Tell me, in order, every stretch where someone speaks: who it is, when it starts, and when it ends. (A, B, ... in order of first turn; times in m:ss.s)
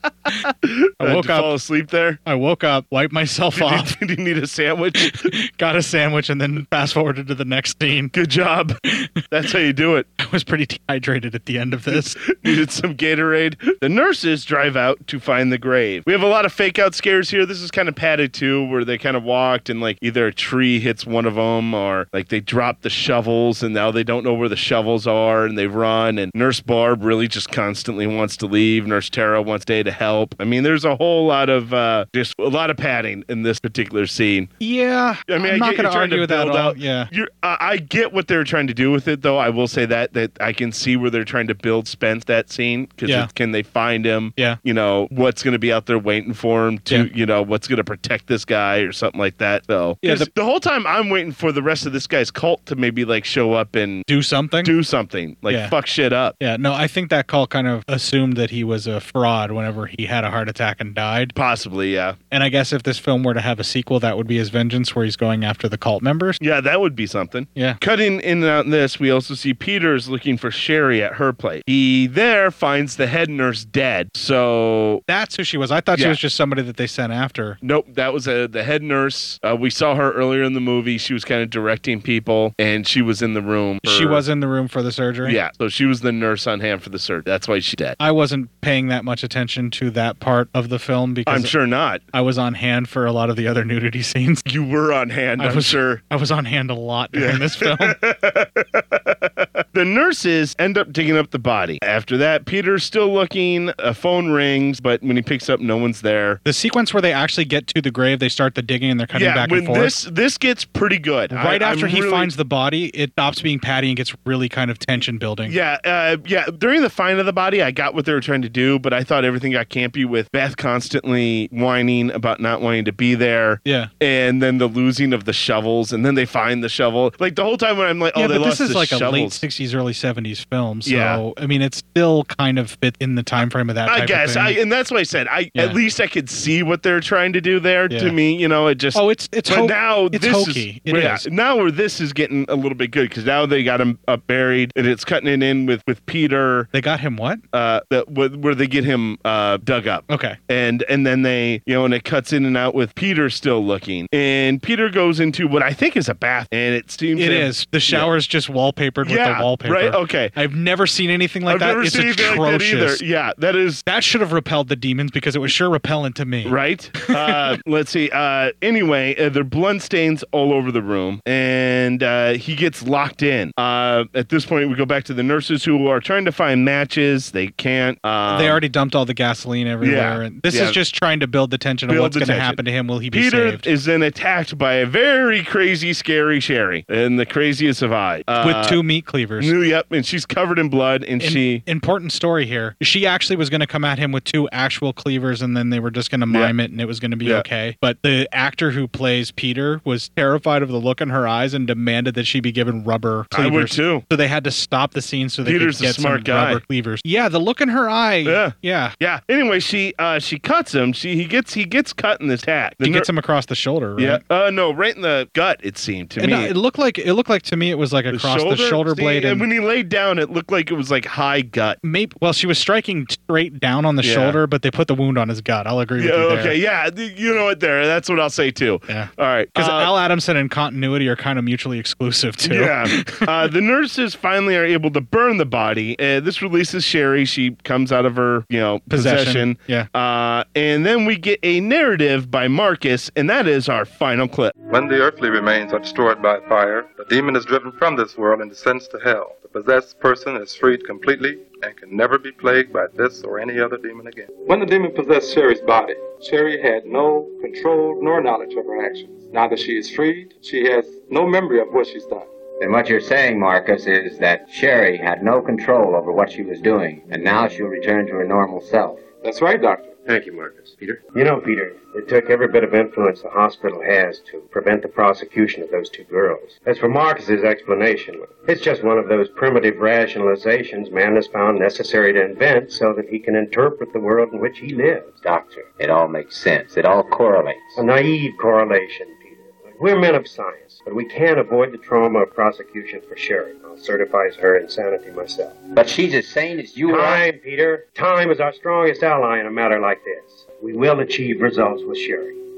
0:00.6-0:02.2 A
0:01.0-0:01.5 B
0:02.2-0:03.9 B
0:03.5-0:05.2 A
0:05.0-0:08.1 B
0:08.1-0:08.7 A
0:09.3-0:10.1 A
0:10.2-0:12.4 B
0:11.9-0:34.5 A
0:34.6-0:37.1 B
0:35.3-0:54.1 A
0:50.0-0:50.3 B
0:54.1-0:54.7 B
0:54.6-0:56.3 A
0:55.5-0:55.7 B
0:56.4-1:01.3 B
1:01.3-1:02.2 A
1:02.3-1:06.4 B
1:06.4-1:15.0 A
1:15.1-1:17.6 B
1:17.6-1:24.2 A
1:23.8-1:25.4 B
1:25.2-1:28.0 A
1:28.0-1:31.5 B
1:31.3-1:32.0 A
1:32.1-1:34.4 B
1:34.4-1:36.0 A
1:35.4-1:37.9 B
1:37.1-1:46.4 A
1:46.4-1:49.9 B
1:49.1-1:52.3 A
1:51.3-1:55.6 B
1:55.4-2:09.4 A
2:03.6-2:03.9 B
2:08.1-2:14.6 B
2:10.8-2:11.2 A
2:13.9-2:26.7 A
2:17.9-2:18.1 B
2:18.9-2:21.2 B
2:26.7-2:27.4 B
2:27.5-2:38.1 A
2:30.1-2:30.4 B
2:37.2-2:43.0 B
2:39.0-2:40.3 A
2:41.5-2:43.8 A
2:43.9-2:47.5 B
2:46.4-2:58.6 A
2:58.3-3:03.7 B
2:59.8-3:00.8 A
3:01.9-3:02.6 A
3:03.1-3:08.8 A
3:08.4-3:09.5 B
3:09.4-3:11.6 A
3:11.2-3:29.0 B
3:23.3-3:24.0 A
3:25.4-3:26.6 A
3:28.2-3:33.1 A
3:32.8-3:34.2 B
3:34.0-3:36.5 A
3:36.2-3:39.4 B
3:38.1-3:41.8 A
3:41.8-3:46.6 B
3:44.0-3:44.4 A
3:46.0-3:49.9 A
3:48.9-3:53.5 B
3:52.5-4:04.5 A
3:58.9-3:59.9 B
4:04.7-4:22.3 C
4:22.6-4:29.0 D
4:29.2-4:30.0 C
4:30.0-4:45.7 E
4:45.6-4:47.8 D
4:47.7-4:55.6 E
4:55.7-4:57.2 D
4:56.8-5:02.4 E